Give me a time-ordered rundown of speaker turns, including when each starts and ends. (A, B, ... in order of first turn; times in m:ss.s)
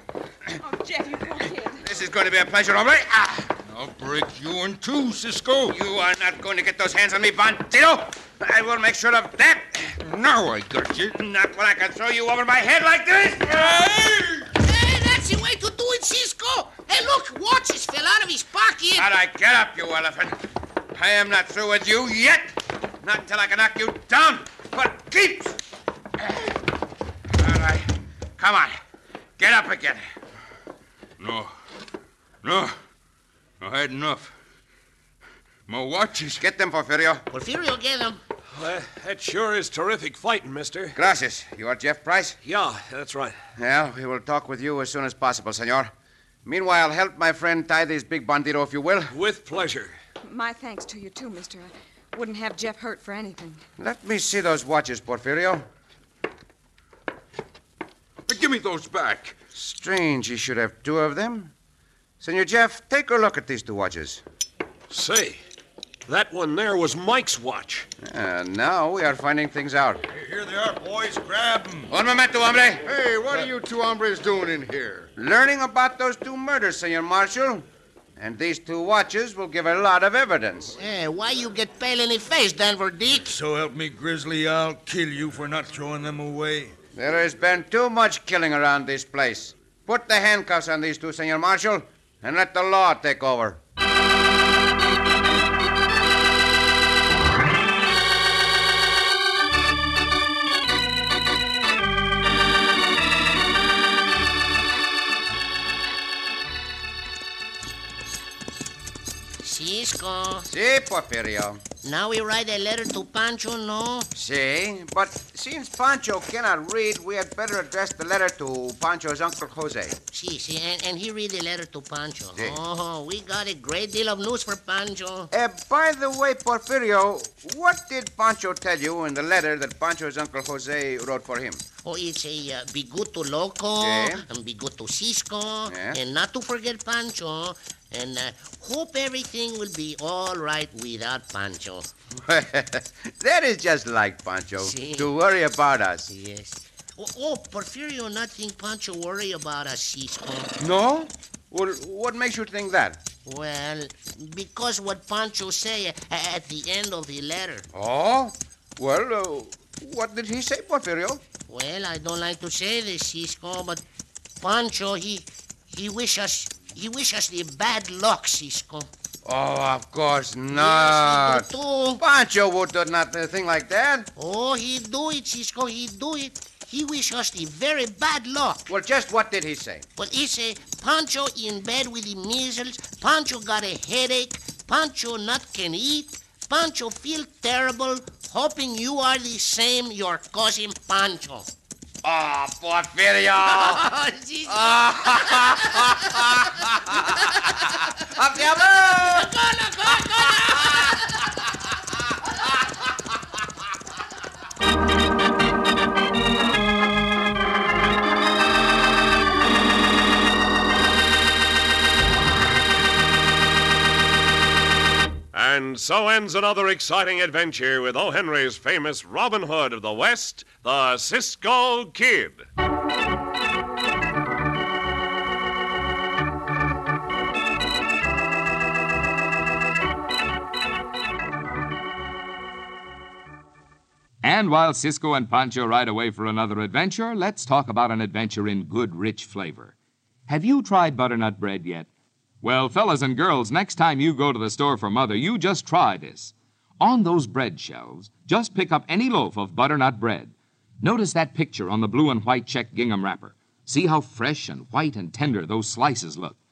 0:00.6-0:01.8 A
0:01.8-0:03.5 B
0:03.6-0:05.8 C
0:05.7-0:10.0 B
0:10.0-0:11.2 C
0:11.1-0:13.9 B
0:13.6-0:14.4 C
0:14.6-0:19.1 D
0:18.9-0:20.4 B
0:20.9-0:25.6 B
0:26.2-0:26.6 B
0:27.3-0:28.8 B
0:29.4-0:30.0 B
0:31.2-0:31.5 C
0:32.4-0:32.8 C
0:33.6-0:34.3 C
0:35.7-0:36.4 C
0:36.4-0:37.2 B
0:37.3-0:38.2 D
0:38.5-0:41.0 E
0:40.9-0:42.4 B
0:42.4-0:43.4 E
0:43.6-0:45.9 B
0:46.4-0:49.1 B
0:49.1-0:49.9 E
0:50.2-0:53.6 A
0:53.8-0:55.6 B
0:58.3-0:59.4 C
0:59.5-1:01.5 B
1:02.2-1:04.2 B
1:04.9-1:05.4 E
1:06.0-1:07.9 E
1:08.0-1:10.0 B
1:10.1-1:11.9 F
1:11.9-1:12.8 B
1:12.8-1:15.1 G
1:15.2-1:20.8 B
1:20.8-1:23.3 D
1:23.2-1:26.7 F
1:26.9-1:33.6 B
1:49.4-1:50.5 D
1:50.5-1:51.6 B
1:51.8-1:54.1 D
1:54.1-2:00.0 B
2:00.1-2:05.3 D
2:02.4-2:02.6 B
2:05.3-2:11.6 B
2:11.8-2:21.9 D
2:13.8-2:14.2 B
2:15.7-2:16.0 B
2:22.2-2:26.1 B
2:24.6-2:25.1 D
2:26.1-2:30.5 D
2:30.6-2:33.0 B
2:33.2-2:37.7 D
2:37.7-2:41.2 B
2:41.5-2:43.8 D
2:44.4-2:48.9 D
2:49.2-2:51.5 B
2:50.5-2:52.0 D
2:52.0-2:54.1 B
2:54.2-2:58.7 D
2:58.7-2:59.9 B
3:00.0-3:11.5 D
3:12.0-3:13.9 B
3:13.4-3:17.8 D
3:14.5-3:19.3 B
3:18.6-3:21.3 D
3:19.9-3:21.0 B
3:35.3-3:42.4 H
3:54.2-3:59.7 I
4:00.3-4:01.9 I
4:02.4-4:16.4 I